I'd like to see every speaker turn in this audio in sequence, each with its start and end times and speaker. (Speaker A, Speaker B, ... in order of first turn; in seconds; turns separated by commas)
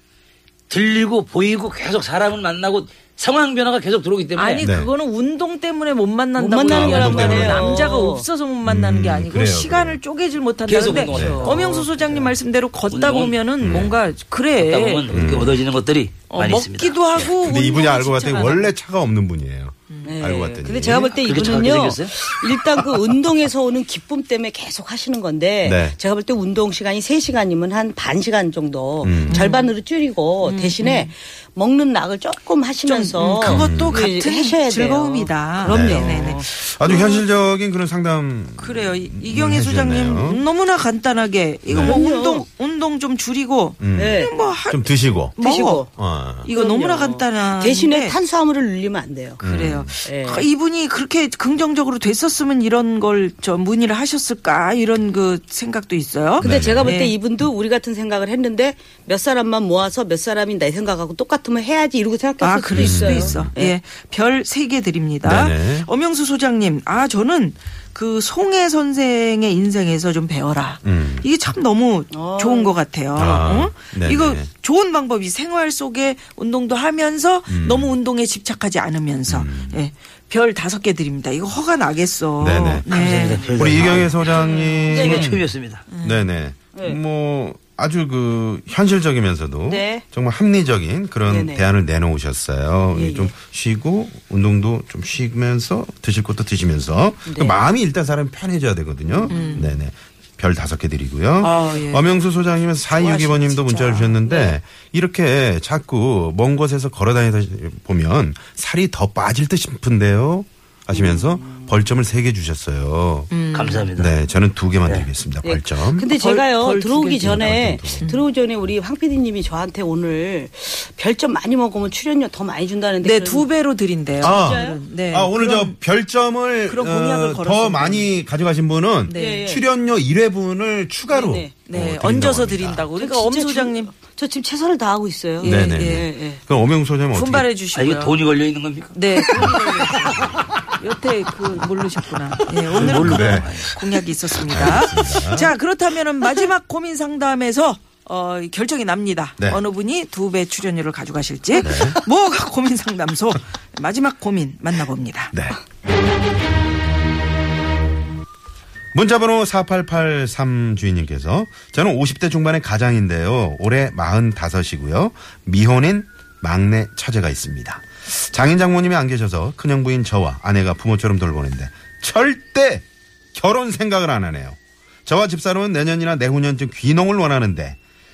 Speaker A: 0.7-4.7, Speaker B: 4.4-15.1, Speaker C: 4.6-4.9, Speaker D: 6.4-8.3, Speaker C: 6.7-7.9, Speaker C: 8.7-10.0, Speaker A: 10.7-12.3, Speaker C: 11.1-11.6, Speaker A: 12.9-13.4, Speaker C: 13.6-14.0, Speaker A: 14.6-17.3, Speaker C: 15.1-15.6, Speaker B: 16.3-18.8, Speaker C: 17.2-21.3, Speaker D: 20.1-37.1, Speaker A: 21.1-22.1, Speaker C: 25.6-26.0, Speaker C: 29.0-29.5, Speaker B: 29.3-29.7, Speaker B: 30.4-31.1, Speaker B: 32.9-37.2, Speaker C: 33.4-34.0, Speaker C: 35.6-40.5, Speaker B: 38.6-45.9, Speaker C: 41.7-42.0, Speaker D: 41.8-42.4, Speaker C: 43.8-45.4, Speaker D: 44.0-44.3, Speaker D: 45.4-45.9, Speaker C: 45.9-46.5, Speaker B: 46.4-48.2, Speaker D: 46.5-49.4, Speaker C: 49.4-49.9, Speaker B: 49.4-57.1, Speaker D: 50.0-50.5, Speaker C: 56.4-57.0, Speaker D: 56.4-63.8, Speaker B: 62.4-85.3, Speaker C: 62.7-63.5, Speaker C: 65.2-65.9, Speaker C: 70.8-71.3, Speaker D: 72.1-72.8, Speaker C: 73.2-74.5, Speaker C: 77.5-78.0, Speaker C: 79.3-79.8, Speaker C: 82.4-85.5, Speaker A: 82.9-84.2, Speaker D: 84.2-85.3, Speaker A: 84.9-85.8, Speaker B: 85.9-86.2, Speaker C: 86.0-113.3, Speaker D: 89.7-90.0, Speaker D: 91.2-91.7, Speaker D: 92.9-93.3, Speaker D: 97.3-97.6, Speaker D: 99.3-99.6, Speaker B: 99.3-99.8, Speaker B: 101.4-102.2, Speaker B: 102.9-104.5, Speaker D: 110.9-111.9, Speaker B: 113.3-113.9, Speaker A: 113.5-114.1, Speaker C: 114.0-116.1, Speaker D: 115.4-123.5, Speaker B: 116.1-118.2, Speaker C: 117.2-118.1, Speaker B: 123.0-125.8, Speaker C: 124.2-132.9, Speaker D: 124.2-124.8, Speaker B: 126.7-128.2, Speaker B: 129.1-129.6, Speaker D: 129.1-129.6, Speaker D: 131.1-131.6, Speaker B: 131.7-133.9, Speaker D: 133.0-136.4, Speaker B: 135.4-136.1, Speaker C: 135.4-137.5, Speaker B: 137.1-138.1, Speaker A: 137.8-139.0, Speaker B: 138.9-140.0, Speaker D: 139.3-140.4, Speaker B: 140.8-155.3, Speaker C: 142.7-143.7, Speaker A: 142.7-143.9, Speaker C: 144.3-145.6, Speaker C: 151.6-152.0, Speaker C: 155.3-155.6, Speaker C: 158.9-177.8